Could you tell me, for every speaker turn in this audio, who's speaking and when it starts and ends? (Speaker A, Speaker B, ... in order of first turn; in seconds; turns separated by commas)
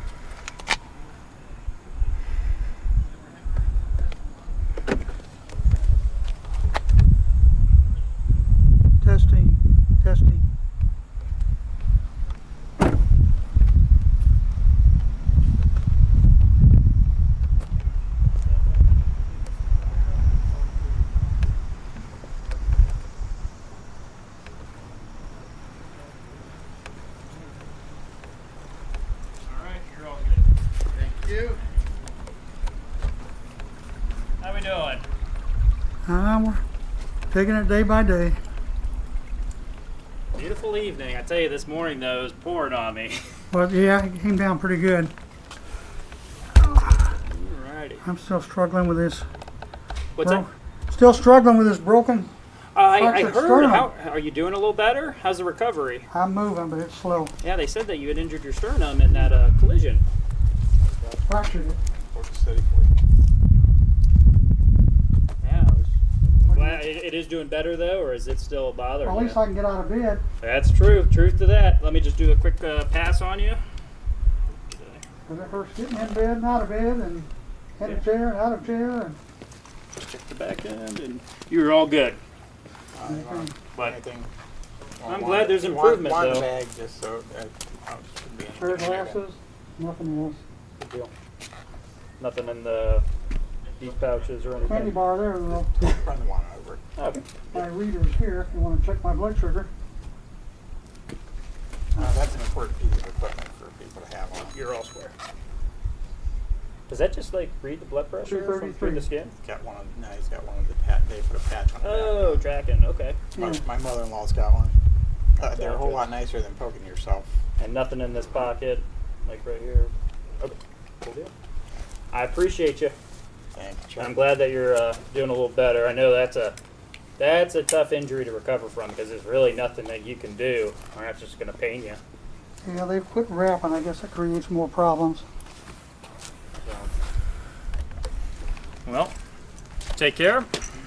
Speaker A: 9.0-10.4, Speaker B: 29.4-30.5, Speaker C: 30.9-31.6, Speaker B: 34.4-35.0, Speaker A: 36.1-36.6, Speaker A: 37.3-38.4, Speaker B: 40.3-43.2, Speaker A: 43.5-45.1, Speaker B: 46.6-48.0, Speaker A: 48.0-49.3, Speaker B: 50.2-50.5, Speaker A: 50.2-52.3, Speaker B: 52.7-56.1, Speaker A: 53.0-53.9, Speaker A: 56.1-57.3, Speaker B: 57.4-60.0, Speaker A: 61.2-61.8, Speaker C: 62.1-62.9, Speaker B: 65.4-69.4, Speaker A: 66.5-66.8, Speaker A: 69.0-70.2, Speaker B: 70.4-73.6, Speaker B: 74.6-75.0, Speaker A: 75.3-79.2, Speaker B: 80.0-82.2, Speaker C: 82.9-84.3, Speaker A: 83.1-83.5, Speaker C: 85.0-89.2, Speaker B: 85.1-86.5, Speaker A: 88.5-90.4, Speaker B: 90.8-91.1, Speaker B: 92.2-93.0, Speaker B: 93.8-95.1, Speaker A: 94.7-95.7, Speaker C: 95.5-96.9, Speaker B: 97.0-97.7, Speaker A: 97.5-99.7, Speaker C: 102.0-104.5, Speaker B: 104.4-105.1, Speaker B: 106.9-109.3, Speaker A: 108.3-109.0, Speaker C: 109.4-112.4, Speaker B: 111.8-113.2, Speaker C: 113.4-114.7, Speaker C: 115.4-117.3, Speaker B: 115.5-116.1, Speaker B: 117.6-121.3, Speaker B: 122.1-123.0, Speaker C: 123.5-124.3, Speaker B: 124.0-126.6, Speaker B: 127.2-132.0, Speaker A: 132.6-135.2, Speaker B: 138.8-139.1, Speaker B: 139.9-140.5